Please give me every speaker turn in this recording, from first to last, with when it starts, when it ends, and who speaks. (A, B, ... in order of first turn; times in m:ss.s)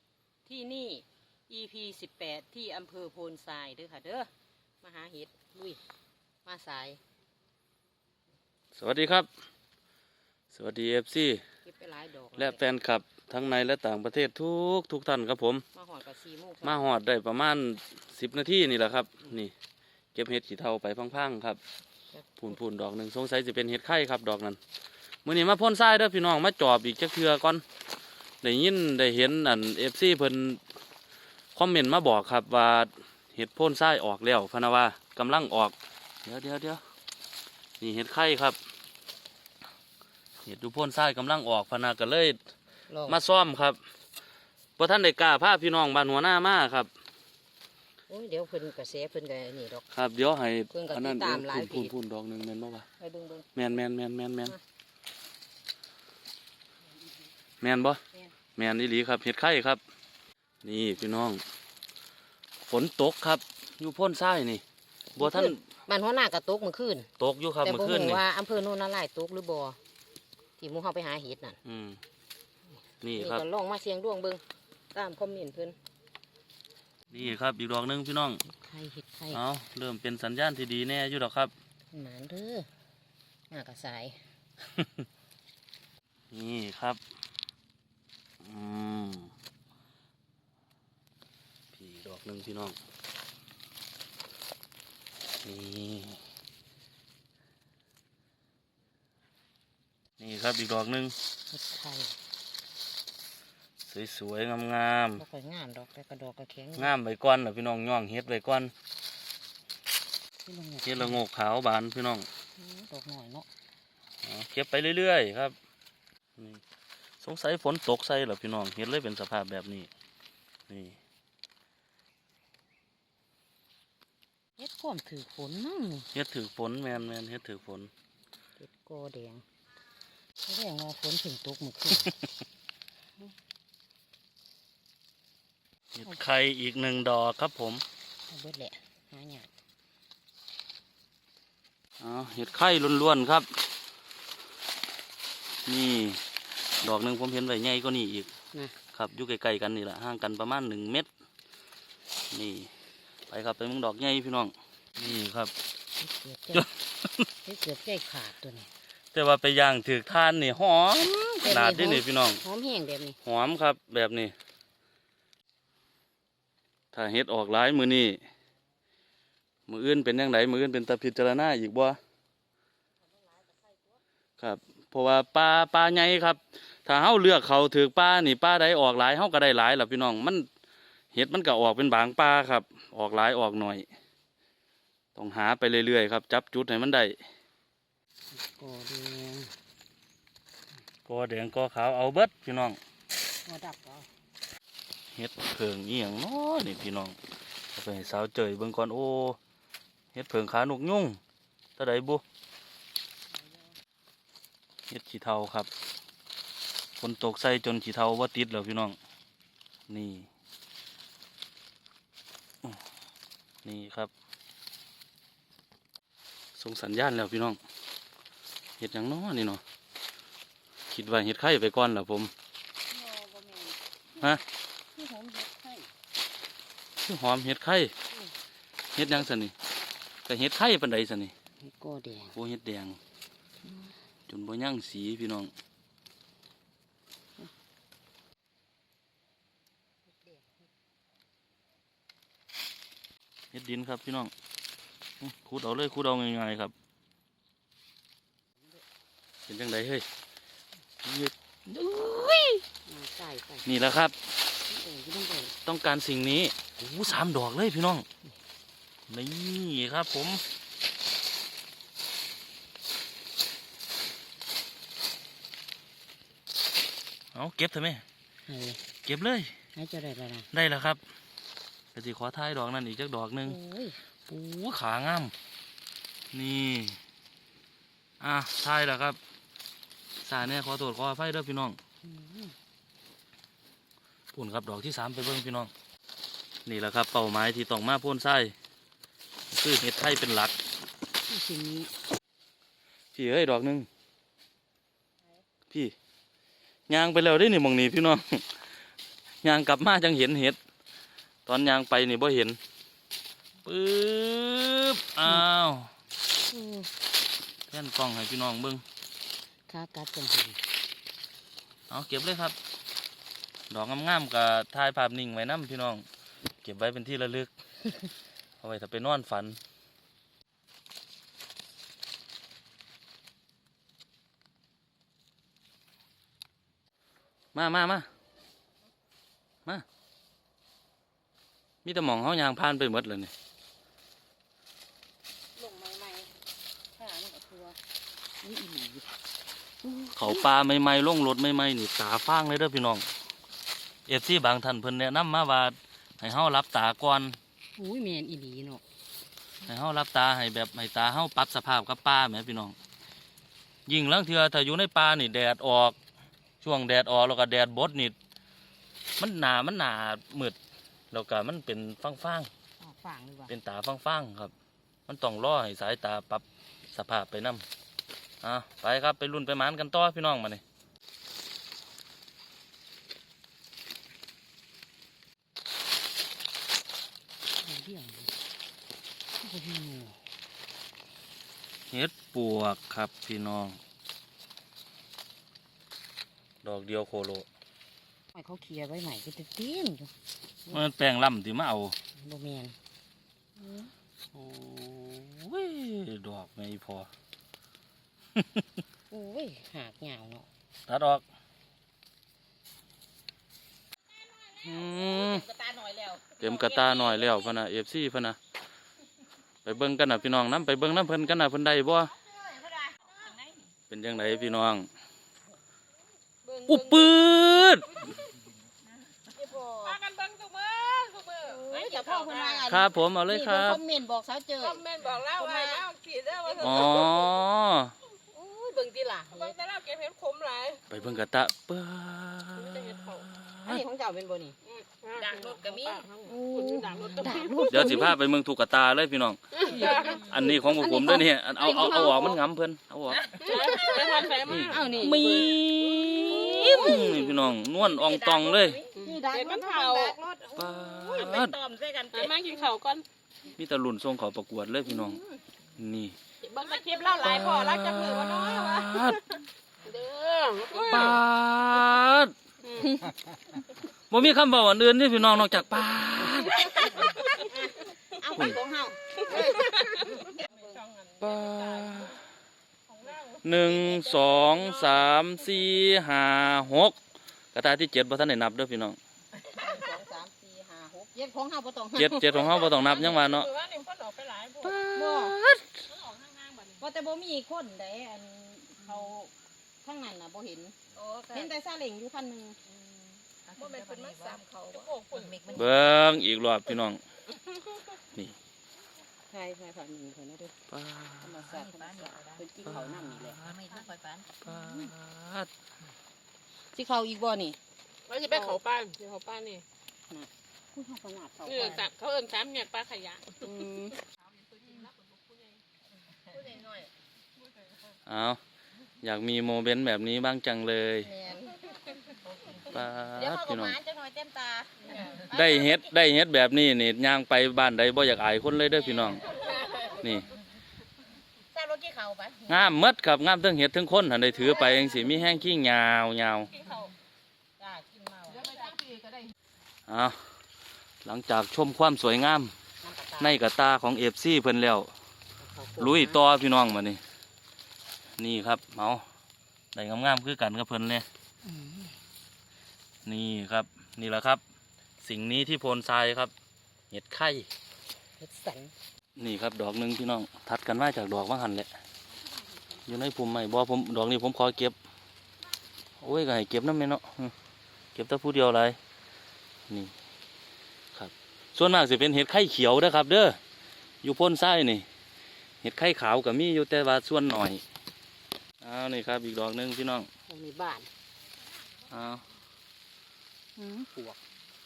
0:00.4-0:04.3 A
0:04.8-0:05.8 A
0:06.4-0:07.0 A
0:08.8-0:09.3 B
0:10.5-0:11.4 B
0:11.6-0:12.6 A
0:12.4-0:15.6 B
0:15.7-0:16.9 A
0:16.6-0:19.5 B
0:20.2-0:21.6 B
0:22.1-0:22.6 A
0:22.4-0:24.6 B
0:25.2-0:27.6 B
0:28.4-0:30.6 B
0:31.6-0:36.8 B
0:37.8-0:38.6 B
0:40.4-0:42.4 B
0:42.9-0:43.2 A
0:43.1-0:43.8 B
0:44.8-0:46.9 B
0:48.1-0:49.8 A
0:49.9-0:52.9 B
0:50.7-0:51.9 A
0:53.0-0:53.5 A
0:53.6-0:54.6 B
0:57.6-0:58.0 B
0:58.6-0:59.8 B
1:00.6-1:01.4 B
1:02.6-1:04.6 B
1:05.2-1:05.6 B
1:05.2-1:07.1 A
1:07.2-1:08.2 B
1:07.6-1:09.8 A
1:10.6-1:11.6 A
1:11.6-1:12.0 B
1:13.0-1:13.4 B
1:13.1-1:14.4 A
1:14.9-1:15.8 A
1:17.1-1:18.4 B
1:18.5-1:19.4 A
1:19.3-1:21.5 B
1:21.9-1:22.7 A
1:23.5-1:24.2 A
1:24.7-1:25.1 B
1:26.3-1:27.0 B
1:28.4-1:29.3 B
1:31.7-1:32.8 B
1:35.4-1:36.2 B
1:40.2-1:41.2 B
1:41.5-1:42.2 A
1:43.8-1:45.2 B
1:45.2-1:46.9 A
1:46.8-1:48.7 B
1:50.4-1:51.2 A
1:50.8-1:52.3 B
1:52.6-1:53.5 A
1:54.2-1:55.6 B
1:56.4-1:56.6 B
1:57.2-1:59.9 B
2:00.7-2:01.0 B
2:04.6-2:06.1 A
2:06.1-2:07.9 B
2:08.6-2:09.4 A
2:10.5-2:12.1 A
2:16.0-2:17.8 B
2:18.3-2:19.5 A
2:22.0-2:23.5 B
2:25.7-2:26.2 B
2:26.8-2:28.3 B
2:28.9-2:31.1 B
2:32.3-2:32.7 B
2:33.3-2:35.5 B
2:36.0-2:36.7 A
2:36.5-2:37.3 B
2:37.4-2:38.7 A
2:39.1-2:42.4 B
2:41.4-2:43.2 A
2:43.2-2:44.3 B
2:46.9-2:48.2 B
2:49.7-2:52.0 B
2:54.4-3:00.5 B
3:01.1-3:03.9 B
3:05.2-3:07.2 B
3:08.3-3:09.5 A
3:11.1-3:12.8 B
3:13.5-3:14.1 A
3:15.1-3:17.2 B
3:17.7-3:19.4 B
3:20.1-3:21.2 B
3:21.8-3:22.2 B
3:23.3-3:23.6 A
3:24.9-3:25.7 B
3:27.0-3:29.0 B
3:29.9-3:30.3 B
3:33.6-3:34.1 B
3:36.6-3:37.6 B
3:38.8-3:39.6 B
3:40.9-3:42.3 B
3:42.9-3:44.4 A
3:44.9-3:45.9 A
3:47.0-3:47.9 B
3:49.0-3:49.5 B
3:50.3-3:51.3 B
3:51.6-3:52.4 A
3:52.4-3:53.0 B
3:53.6-3:53.9 A
3:54.3-3:55.5 B
4:03.5-4:04.3 B
4:05.2-4:06.7 B
4:09.5-4:10.0 B
4:11.0-4:12.6 B
4:12.9-4:13.7 A
4:13.7-4:14.2 B
4:14.7-4:15.6 A
4:15.7-4:18.0 B
4:19.1-4:20.4 B
4:27.3-4:28.0 B
4:28.5-4:28.8 A
4:29.0-4:29.6 B
4:29.8-4:30.5 A
4:30.5-4:31.0 B
4:32.0-4:33.6 B
4:33.4-4:34.0 A
4:34.3-4:35.3 B
4:36.3-4:37.0 B
4:38.2-4:39.2 B
4:40.2-4:41.8 B
4:42.0-4:42.6 A
4:44.3-4:45.7 B
4:46.7-4:48.5 B
4:49.5-4:50.6 B
4:51.3-4:51.9 A
4:53.1-4:53.9 B
4:56.9-4:58.5 B
4:59.4-5:00.6 B
5:01.5-5:02.6 B
5:03.6-5:05.9 B
5:06.5-5:06.9 A
5:07.7-5:08.8 B
5:09.7-5:10.6 A
5:11.9-5:12.6 B
5:13.7-5:16.0 B
5:16.6-5:17.5 B
5:18.6-5:19.6 B
5:27.5-5:28.1 B
5:31.8-5:33.3 B
5:35.6-5:36.3 A
5:36.9-5:37.8 A
5:38.4-5:39.1 A
5:39.8-5:40.5 A
5:40.2-5:43.0 B
5:44.1-5:47.4 B
5:47.8-5:48.8 A
5:49.6-5:52.8 B
5:53.9-5:56.0 B
5:56.6-5:58.2 B
5:59.2-6:00.6 B
6:01.1-6:02.5 B
6:02.8-6:03.5 A
6:03.5-6:04.5 B
6:05.1-6:07.6 B
6:08.4-6:10.6 B
6:17.6-6:18.3 A
6:19.4-6:20.2 A
6:21.9-6:23.8 B
6:26.6-6:27.5 B
6:28.3-6:30.1 A
6:30.7-6:32.0 B
6:32.2-6:32.8 A
6:33.6-6:33.9 A
6:34.3-6:37.1 B
6:38.3-6:38.8 B
6:39.1-6:40.5 A
6:40.9-6:41.2 B
6:44.3-6:47.5 A
6:44.6-6:45.5 B
6:46.4-6:48.4 B
6:49.6-6:52.2 B
6:52.3-6:53.4 A
6:53.9-6:54.9 B
6:56.4-6:57.3 C
6:56.7-6:58.0 B
6:59.3-7:00.0 A
6:59.8-7:02.7 C
7:01.4-7:05.8 A
7:02.7-7:03.8 B
7:04.6-7:07.3 C
7:06.4-7:06.8 A
7:06.6-7:07.9 B
7:08.3-7:09.6 A
7:09.3-7:11.0 C
7:10.9-7:13.8 B
7:12.6-7:13.3 C
7:13.6-7:14.6 A
7:14.7-7:18.1 C
7:15.2-7:18.2 A
7:17.7-7:28.8 B
7:19.6-7:20.4 C
7:19.6-7:22.4 A
7:23.1-7:25.6 A
7:23.4-7:27.2 C
7:26.2-7:32.7 A
7:29.0-7:30.2 C
7:30.6-7:31.6 B
7:32.1-7:33.0 C
7:33.6-7:35.2 B
7:34.9-7:35.4 A
7:35.8-7:36.2 B
7:36.4-7:39.2 C
7:36.7-7:39.0 A
7:37.2-7:39.3 B
7:39.8-7:41.2 C
7:40.7-7:42.3 B
7:42.6-7:43.0 C
7:44.1-7:47.1 B
7:46.9-7:50.8 A
7:47.2-7:47.5 C
7:49.2-7:52.2 C
7:51.2-7:52.2 B
7:52.9-7:55.3 C
7:53.4-7:57.0 B
7:57.5-7:59.0 B
7:59.6-8:02.4 A
8:02.0-8:03.5 B
8:02.3-8:04.8 C
8:04.6-8:05.8 B
8:04.9-8:05.4 A
8:05.9-8:06.8 C
8:06.8-8:09.3 A
8:09.8-8:10.8 A
8:11.0-8:11.5 C
8:11.3-8:12.6 A
8:13.5-8:15.7 A
8:13.5-8:15.5 C
8:15.5-8:17.0 B
8:19.3-8:20.6 A
8:20.7-8:21.6 B
8:21.2-8:24.9 A
8:22.6-8:23.7 B
8:24.4-8:25.5 B
8:26.7-8:27.6 A
8:28.1-8:29.6 C
8:28.2-8:28.6 A
8:30.1-8:31.9 A
8:31.5-8:35.6 C
8:33.5-8:33.8 A
8:36.4-8:36.8 A
8:38.1-8:38.4 B
8:39.0-8:41.1 B
8:41.0-8:41.8 A
8:42.5-8:45.8 A
8:42.6-8:43.8 B
8:45.2-8:49.4 B
8:49.0-8:50.0 A
8:49.9-8:50.3 B
8:51.5-8:52.8 A
8:52.5-8:56.5 B
8:57.6-8:58.8 A
8:58.6-8:59.2 C
8:59.9-9:00.3 B
9:01.0-9:02.6 B
9:02.8-9:03.4 A
9:03.2-9:04.9 B
9:05.4-9:06.2 A
9:05.8-9:07.0 B
9:08.2-9:09.0 B
9:09.7-9:11.0 B
9:11.4-9:12.0 A
9:13.0-9:14.4 B
9:15.0-9:16.3 B
9:16.9-9:17.5 B
9:18.2-9:18.7 A
9:19.2-9:21.7 B
9:22.9-9:24.8 B
9:26.0-9:27.3 B
9:28.0-9:28.8 B
9:30.9-9:33.4 B
9:34.0-9:34.9 B
9:35.6-9:37.6 B
9:38.6-9:40.1 B
9:40.3-9:40.9 A
9:41.9-9:42.3 B
9:43.6-9:44.2 A